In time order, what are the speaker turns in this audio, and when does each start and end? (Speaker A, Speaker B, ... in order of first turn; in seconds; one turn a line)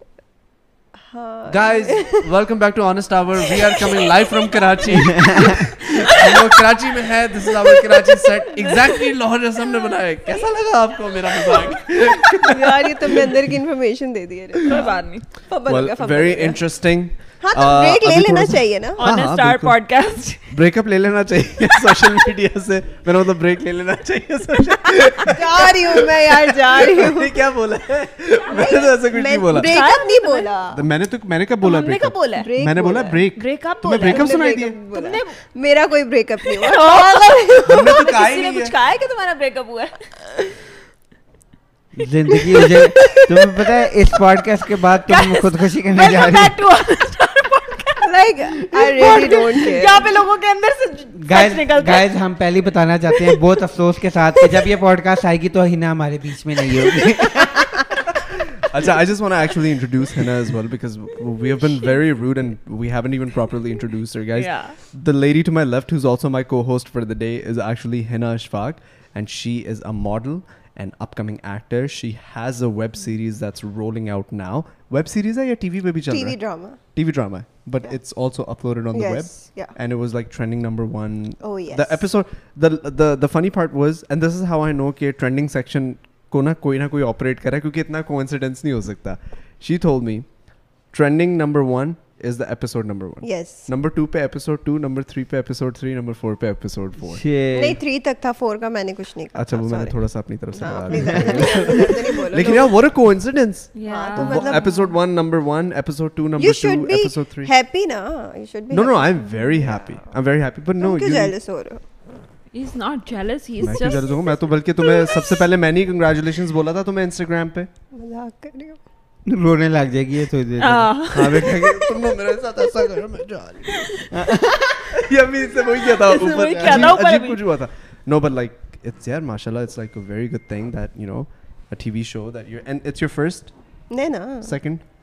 Speaker A: 1.1-2.2
Speaker B: 1.5-13.3
Speaker C: 5.2-5.5
Speaker D: 6.1-6.4
Speaker D: 7.9-8.2
Speaker A: 12.4-16.6
Speaker D: 14.7-15.4
Speaker B: 15.7-19.8
Speaker A: 17.4-19.0
Speaker D: 19.0-20.6
Speaker B: 20.5-29.8
Speaker A: 25.3-27.3
Speaker A: 28.5-30.8
Speaker D: 29.6-30.5
Speaker B: 30.7-34.8
Speaker D: 31.6-32.5
Speaker A: 32.4-33.3
Speaker D: 33.4-34.4
Speaker A: 34.0-38.0
Speaker D: 34.9-35.4
Speaker D: 36.5-40.1
Speaker B: 37.6-38.8
Speaker C: 42.0-46.6
Speaker D: 42.5-43.7
Speaker D: 45.0-48.0
Speaker A: 48.0-50.1
Speaker D: 49.0-52.1
Speaker C: 51.2-57.7
Speaker D: 56.8-57.1
Speaker B: 58.7-90.3
Speaker D: 64.3-64.8
Speaker A: 76.1-76.8
Speaker A: 78.9-79.7
Speaker A: 81.4-82.1
Speaker B: 90.9-97.2
Speaker A: 93.2-93.7
Speaker C: 97.0-97.8
Speaker A: 97.5-100.0
Speaker B: 99.3-107.5
Speaker A: 100.5-102.8
Speaker C: 101.0-101.4
Speaker D: 103.7-104.9
Speaker A: 103.9-104.8
Speaker A: 106.4-110.0
Speaker B: 108.7-111.3
Speaker A: 110.8-111.8
Speaker D: 112.5-114.4
Speaker B: 113.6-117.7
Speaker A: 117.9-118.8
Speaker C: 119.3-120.9
Speaker D: 120.6-122.0
Speaker B: 121.1-124.0
Speaker C: 124.1-124.8
Speaker B: 124.9-133.6
Speaker D: 125.8-127.4
Speaker C: 126.4-126.9
Speaker A: 133.9-134.6
Speaker B: 134.4-134.8